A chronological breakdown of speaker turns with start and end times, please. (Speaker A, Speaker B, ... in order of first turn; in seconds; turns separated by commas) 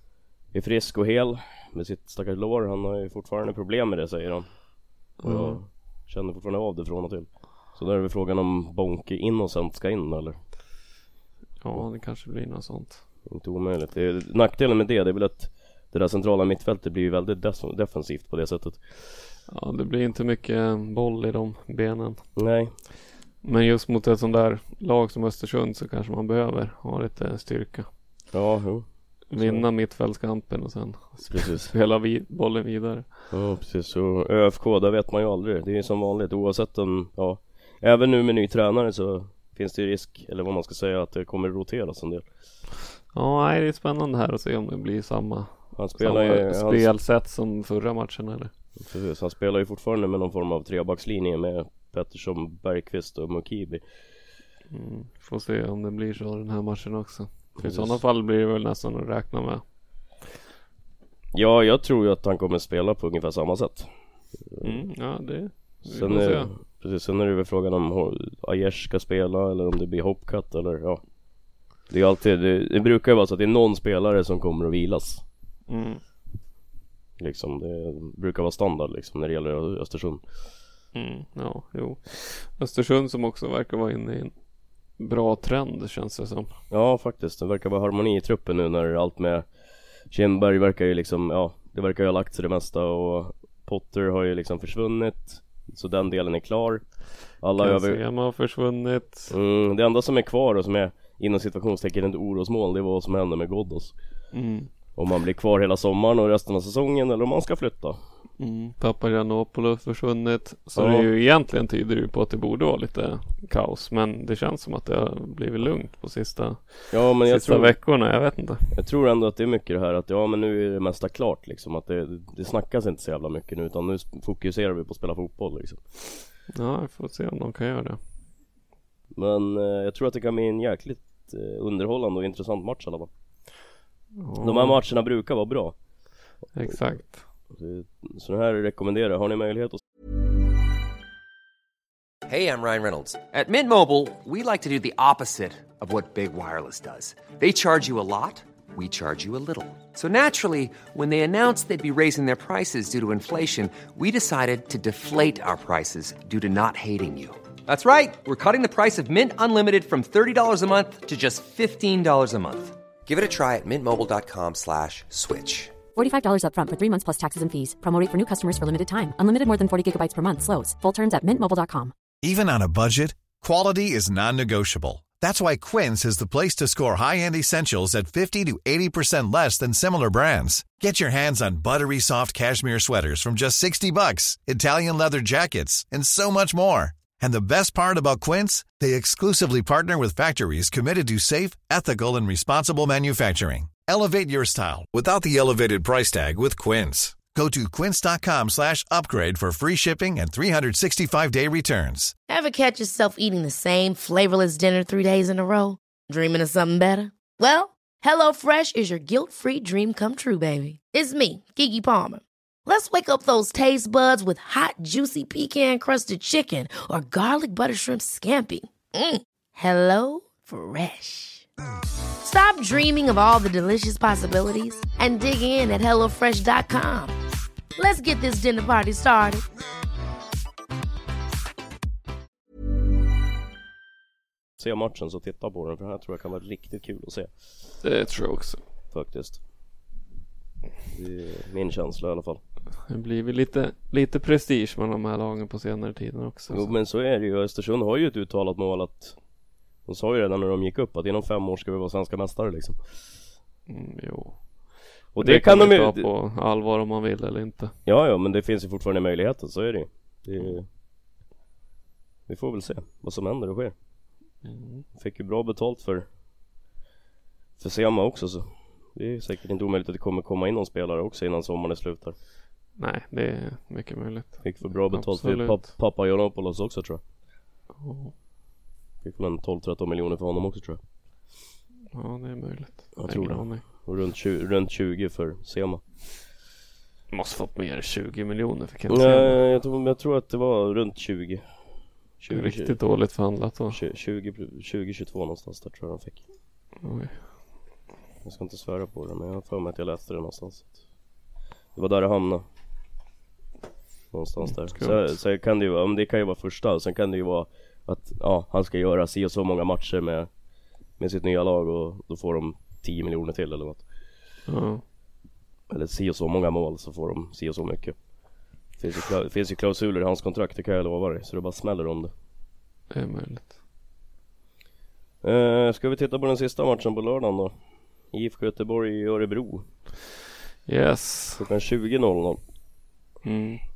Speaker A: 0.5-10.4, Speaker B: 5.2-5.6, Speaker B: 11.6-13.0, Speaker A: 13.3-18.9, Speaker B: 19.5-22.2, Speaker A: 22.4-22.8, Speaker B: 23.4-27.9, Speaker A: 28.3-29.7, Speaker B: 29.3-33.2, Speaker A: 31.3-31.7, Speaker A: 33.3-42.2, Speaker B: 43.1-48.5, Speaker A: 45.8-46.9, Speaker A: 48.8-53.9, Speaker B: 54.7-59.6, Speaker A: 57.6-58.0, Speaker A: 61.3-64.8, Speaker B: 64.6-66.5, Speaker A: 65.8-71.1, Speaker A: 71.9-75.2, Speaker B: 75.7-76.0, Speaker A: 77.2-80.2, Speaker B: 80.9-84.3, Speaker B: 85.0-86.5, Speaker A: 86.7-89.5, Speaker A: 90.1-98.0, Speaker B: 97.6-99.3, Speaker A: 99.3-104.0, Speaker B: 104.3-104.7, Speaker A: 104.9-108.0, Speaker B: 108.4-118.7, Speaker A: 110.8-111.1, Speaker A: 116.9-117.9, Speaker A: 118.7-125.9, Speaker B: 126.5-128.0, Speaker A: 129.1-133.1, Speaker B: 134.2-134.8, Speaker A: 134.4-135.8, Speaker A: 136.3-136.9, Speaker B: 136.6-137.2, Speaker A: 137.5-139.8, Speaker C: 142.3-165.8, Speaker D: 165.9-171.9, Speaker E: 172.2-202.1, Speaker F: 202.3-221.5, Speaker F: 222.2-227.1, Speaker F: 227.8-229.4, Speaker A: 234.6-237.7, Speaker B: 237.8-238.6, Speaker A: 238.9-239.4, Speaker A: 240.9-242.4, Speaker B: 242.8-246.7, Speaker A: 246.5-249.2, Speaker A: 249.8-252.9, Speaker B: 253.7-257.7, Speaker A: 255.2-256.1, Speaker A: 257.9-260.7, Speaker A: 262.3-263.8, Speaker B: 264.4-264.9, Speaker A: 264.9-266.1, Speaker A: 267.6-272.2, Speaker B: 272.8-275.6, Speaker A: 274.4-277.0, Speaker B: 277.8-278.1, Speaker A: 279.0-280.8, Speaker B: 281.9-283.6, Speaker A: 283.0-286.1, Speaker B: 287.1-289.4, Speaker A: 288.9-292.8, Speaker B: 292.3-293.8, Speaker A: 293.7-296.2, Speaker B: 296.8-297.3, Speaker A: 298.2-300.8, Speaker A: 301.7-302.4, Speaker A: 304.1-310.3, Speaker B: 304.4-305.2, Speaker A: 311.0-313.9, Speaker B: 314.5-314.8, Speaker A: 315.7-318.0, Speaker A: 318.8-322.1, Speaker B: 322.9-323.5, Speaker A: 325.2-329.8, Speaker B: 330.7-331.4, Speaker A: 331.4-332.4, Speaker B: 333.2-333.6